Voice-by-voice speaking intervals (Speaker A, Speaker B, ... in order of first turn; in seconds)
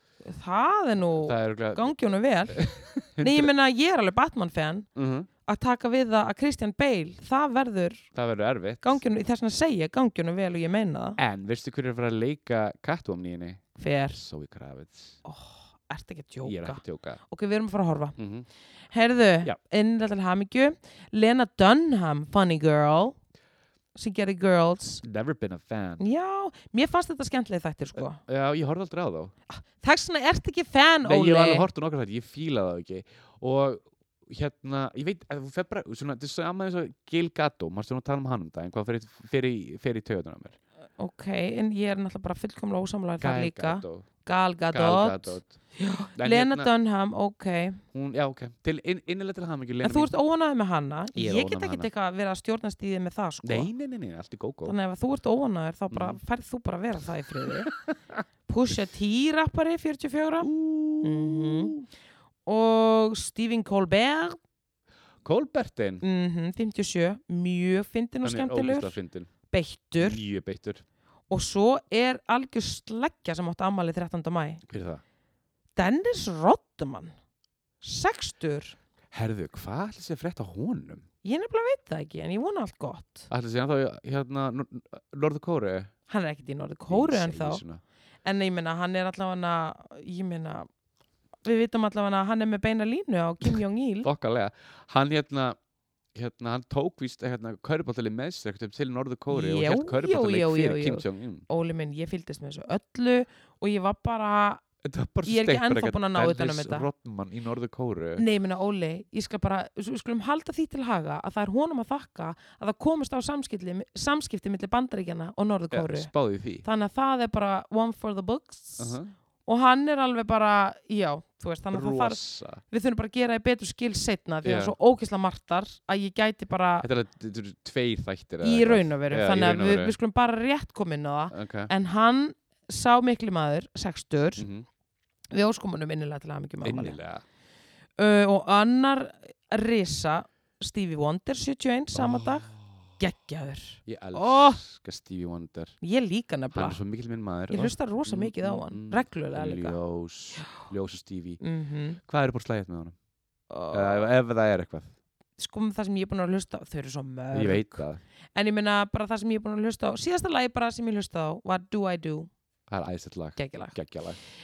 Speaker A: 0.2-4.9, 5.5-8.1, 8.8-11.2, 13.8-14.2, 15.2-18.2, 18.9-23.2, 23.9-25.0, 26.0-28.2, 29.5-31.7, 41.0-47.8, 49.8-53.7, 54.6-57.7, 58.5-61.8, 62.5-64.4, 66.0-69.0, 69.5-70.2, 71.3-74.6, 75.8-77.1, 77.8-78.8, 81.2-83.3, 86.1-87.6, 88.2-90.7, 91.5-94.1, 99.3-104.6, 105.3-106.9, 108.2-116.1, 116.6-122.2, 122.7-126.9, 128.4-134.5, 135.3-137.0, 138.0-142.5, 143.0-144.6, 145.8-146.8, 147.5-149.8, 150.4-150.7, 151.4-152.0, 153.5-154.1, 155.4-157.8, 158.3-162.3, 163.4-163.8
Speaker B: 1.2-1.9, 2.5-3.5, 5.0-5.3, 8.2-9.1, 11.2-15.2, 16.4-17.2, 18.2-18.5, 25.0-26.0, 27.9-29.3, 31.1-40.6, 43.2-44.1, 44.7-45.6, 46.2-46.7, 47.9-50.1, 51.1-51.9, 53.4-54.8, 55.9-56.2, 57.7-58.2, 60.4-61.9, 65.2-66.0, 68.2-69.3, 70.0-70.8, 74.7-75.0, 79.1-81.1, 83.3-85.9, 86.9-87.8, 93.5-95.6, 96.1-101.5, 104.8-108.2, 115.7-116.7, 118.8-119.1, 121.7-122.6, 124.4-124.8, 126.8-130.0, 131.3-131.7, 134.4-134.7, 136.6-137.2, 141.9-142.8, 143.9-145.8, 146.5-151.4, 152.1-153.0, 153.7-154.9, 157.3-158.0, 162.7-164.2